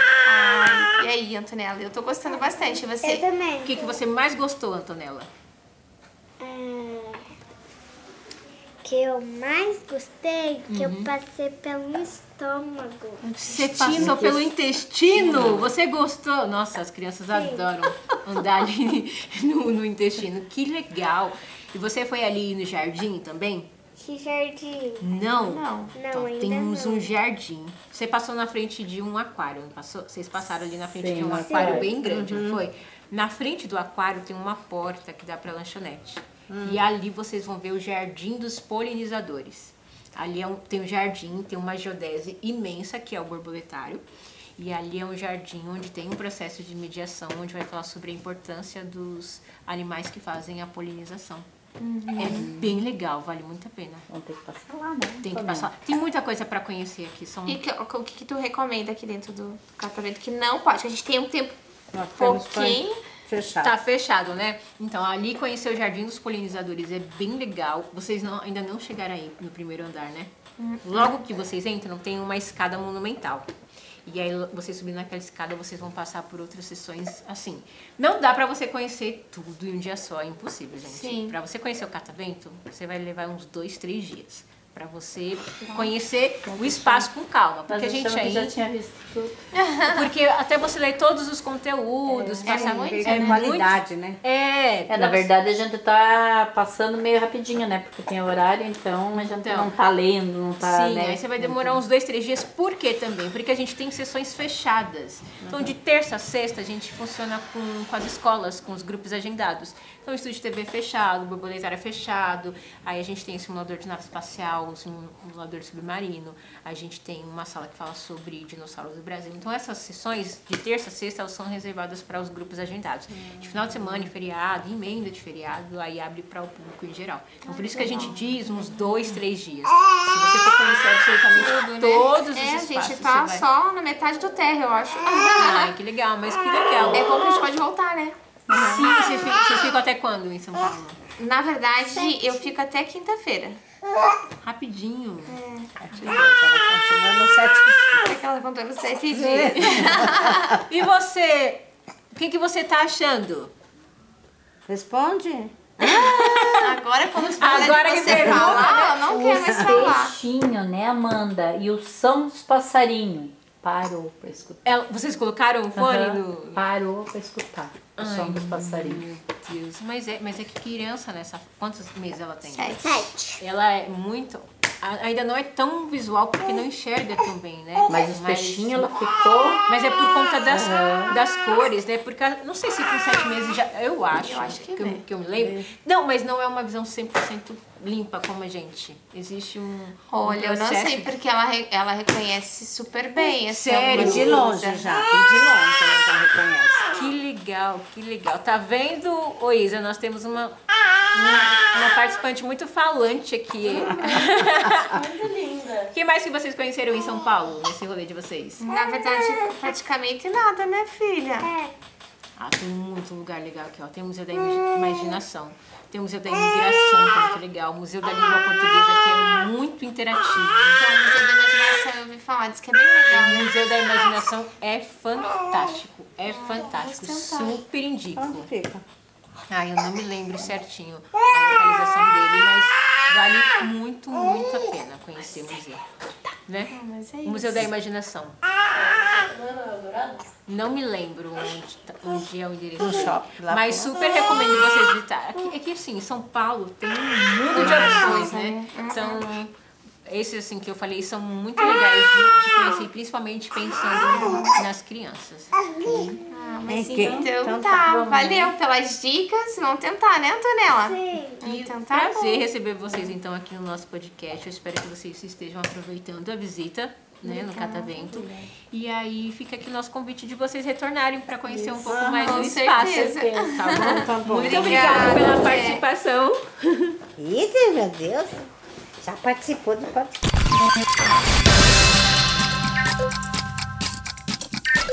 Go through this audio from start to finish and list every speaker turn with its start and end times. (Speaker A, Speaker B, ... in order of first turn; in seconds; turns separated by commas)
Speaker A: 0.2-3.3, Speaker B: 3.0-3.9, Speaker C: 3.6-5.3, Speaker B: 6.4-7.2, Speaker B: 8.8-13.2, Speaker C: 10.7-11.1, Speaker D: 13.2-14.5, Speaker C: 13.4-23.7, Speaker D: 15.1-15.7, Speaker B: 17.3-17.7, Speaker B: 24.0-25.1, Speaker C: 25.0-44.0, Speaker A: 25.4-25.9, Speaker B: 25.9-27.1, Speaker D: 30.9-31.9, Speaker B: 31.3-32.0, Speaker E: 32.0-32.6, Speaker E: 36.5-36.8, Speaker C: 44.6-51.5, Speaker A: 51.8-52.5, Speaker C: 52.2-54.0, Speaker D: 52.2-52.7, Speaker D: 54.1-55.7, Speaker C: 55.2-57.6, Speaker A: 57.5-61.6, Speaker E: 61.9-63.7, Speaker A: 62.1-63.0, Speaker C: 63.6-70.3, Speaker A: 70.6-71.1, Speaker C: 70.8-73.5, Speaker C: 74.0-88.6, Speaker A: 80.8-81.3, Speaker D: 86.5-87.1, Speaker D: 87.7-89.3, Speaker A: 89.5-90.0, Speaker C: 89.9-95.3, Speaker D: 92.1-92.5, Speaker E: 92.4-94.2, Speaker A: 92.4-93.4, Speaker D: 94.9-101.8, Speaker C: 99.2-99.7, Speaker C: 100.6-133.4, Speaker A: 127.5-129.0, Speaker A: 131.3-135.7, Speaker C: 135.3-137.0, Speaker A: 136.9-138.2, Speaker C: 138.5-141.0, Speaker D: 138.5-138.9, Speaker A: 141.2-143.6, Speaker C: 144.4-145.3, Speaker A: 145.3-146.2, Speaker E: 145.8-148.1, Speaker A: 148.0-150.6, Speaker C: 149.2-149.9, Speaker E: 149.2-150.1, Speaker C: 150.7-153.5, Speaker E: 154.7-156.6, Speaker C: 155.8-156.6, Speaker A: 156.6-160.2, Speaker C: 157.4-159.1, Speaker E: 158.1-158.6, Speaker D: 158.3-164.6, Speaker E: 159.4-159.8, Speaker C: 164.6-166.7, Speaker D: 165.7-169.0, Speaker C: 167.9-178.9, Speaker A: 172.4-173.1, Speaker B: 172.8-173.4, Speaker D: 177.9-179.6, Speaker C: 179.7-191.1, Speaker D: 180.5-181.2, Speaker A: 184.1-185.0, Speaker E: 185.4-185.6, Speaker A: 190.1-195.0, Speaker C: 193.5-194.5, Speaker E: 193.8-196.9, Speaker C: 196.9-200.6, Speaker C: 201.1-205.0, Speaker D: 203.7-205.9, Speaker C: 205.9-208.7, Speaker A: 208.6-211.5, Speaker C: 212.4-220.8, Speaker A: 220.8-223.5, Speaker C: 223.1-228.5, Speaker A: 226.3-227.6, Speaker E: 228.2-228.8, Speaker C: 229.5-235.8, Speaker C: 236.5-238.4, Speaker A: 236.7-237.7, Speaker D: 239.2-240.2, Speaker C: 240.4-249.5, Speaker E: 242.8-244.1, Speaker A: 247.5-249.3, Speaker D: 247.5-248.1, Speaker C: 250.1-256.2, Speaker A: 254.1-254.6, Speaker B: 255.6-256.2, Speaker A: 256.3-262.5, Speaker E: 256.7-257.9, Speaker D: 256.9-257.3, Speaker D: 257.8-258.5, Speaker B: 260.8-261.4, Speaker C: 261.4-277.0, Speaker A: 267.2-268.2, Speaker D: 268.1-268.5, Speaker D: 271.5-271.9, Speaker E: 271.9-272.4, Speaker A: 272.1-275.8, Speaker D: 273.0-273.5, Speaker E: 273.8-275.2, Speaker E: 277.2-278.4, Speaker E: 279.0-280.2